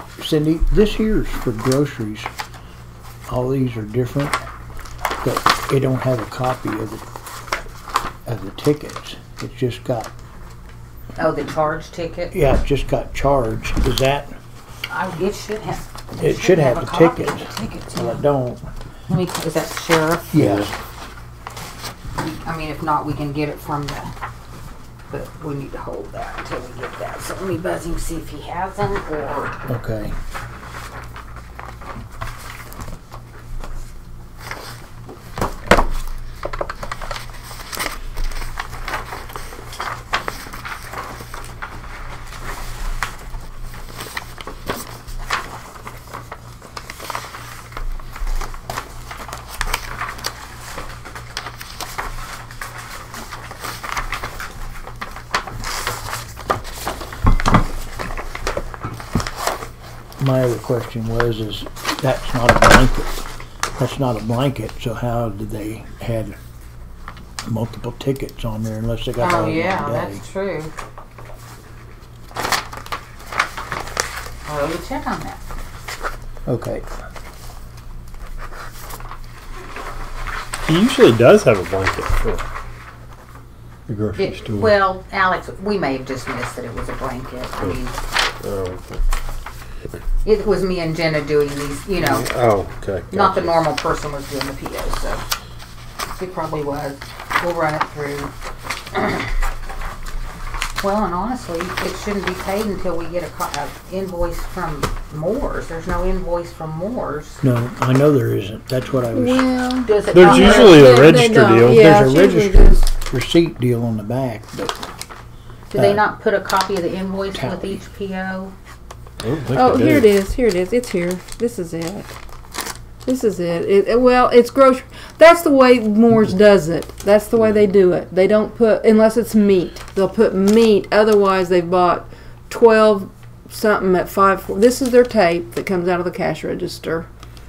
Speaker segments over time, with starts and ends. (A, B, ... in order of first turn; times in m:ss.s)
0:00.2-0:02.3 A
0:03.3-0:04.4 A
0:05.2-0:07.0 A
0:08.3-0:10.1 A
0:11.2-0:12.3 B
0:12.3-0:14.4 A
0:14.9-0:18.2 B
0:16.2-0:18.7 A
0:19.1-0:20.4 B
0:20.3-0:20.7 A
0:20.4-0:20.7 C
0:22.2-0:24.1 B
0:25.1-0:29.6 B
0:29.7-0:30.2 A
1:00.2-1:03.2 A
1:03.8-1:06.4 A
1:07.4-1:10.2 A
1:09.2-1:10.7 B
1:14.5-1:15.4 B
1:16.5-1:16.8 A
1:20.7-1:22.4 C
1:23.9-1:24.7 C
1:24.2-1:28.0 B
1:28.4-1:29.0 C
1:30.2-1:32.3 B
1:32.0-1:33.7 C
1:33.1-1:35.2 B
1:36.2-1:38.3 B
1:38.9-1:39.3 B
1:40.8-1:47.4 B
1:47.4-1:49.5 A
1:49.1-1:52.9 D
1:49.9-1:51.0 B
1:50.1-1:51.9 C
1:51.6-1:54.9 A
1:55.7-1:58.5 B
1:55.8-1:56.0 A
1:57.3-1:57.8 A
1:59.2-2:00.1 C
1:59.5-2:02.1 D
2:03.0-2:17.1 D